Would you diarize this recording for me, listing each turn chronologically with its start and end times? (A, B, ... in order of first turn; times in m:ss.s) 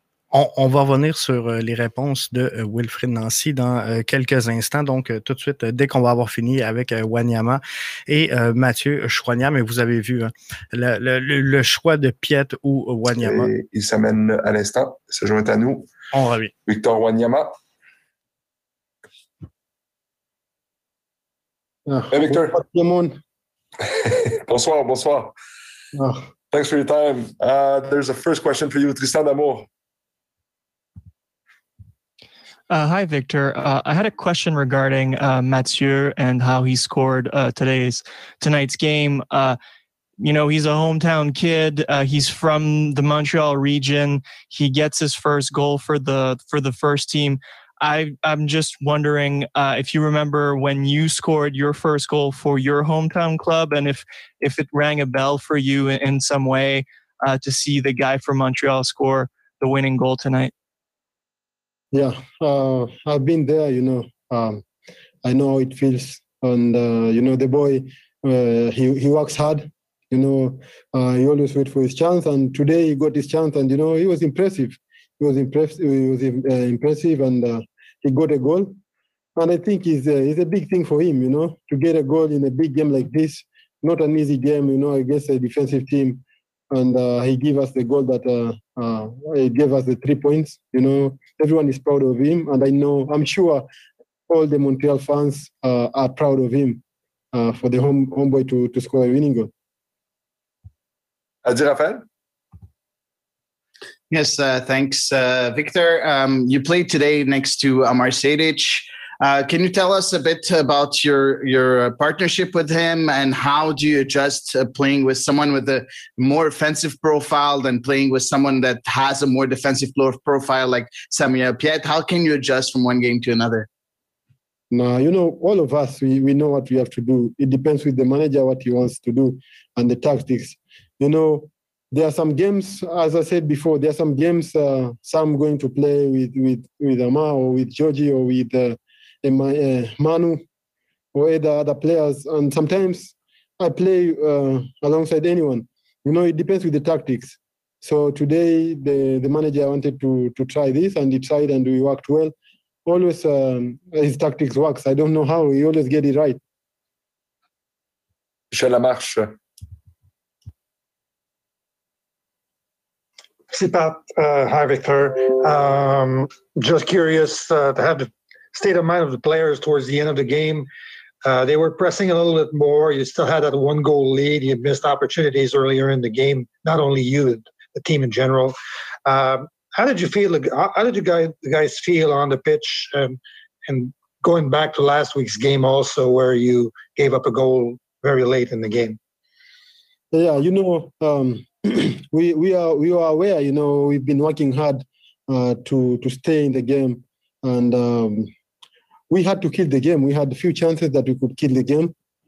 0:00.3-0:13.5 A
0:13.2-0:15.9 B
0:16.1-0:16.5 A
0:16.6-0:17.5 B
0:21.9-0:23.2 C
0:22.1-0:22.6 B
0:24.0-0:25.3 B
0:26.0-0:26.3 C
0:26.5-0:29.7 B
0:32.7-0:39.6 D
0:40.2-1:00.5 D
1:01.9-1:04.6 C
1:05.2-1:18.8 C
1:19.4-1:33.7 C
1:34.3-1:36.8 C
1:37.3-1:39.5 C
1:41.4-1:42.0 B
1:44.1-2:03.7 E
2:04.7-2:20.4 C
2:21.1-2:32.3 C
2:32.8-2:36.4 C
2:38.5-2:39.4 B
2:43.5-2:50.7 F
2:51.2-2:58.5 F
2:59.0-3:09.0 F
3:10.1-3:18.3 C
3:19.1-3:21.9 C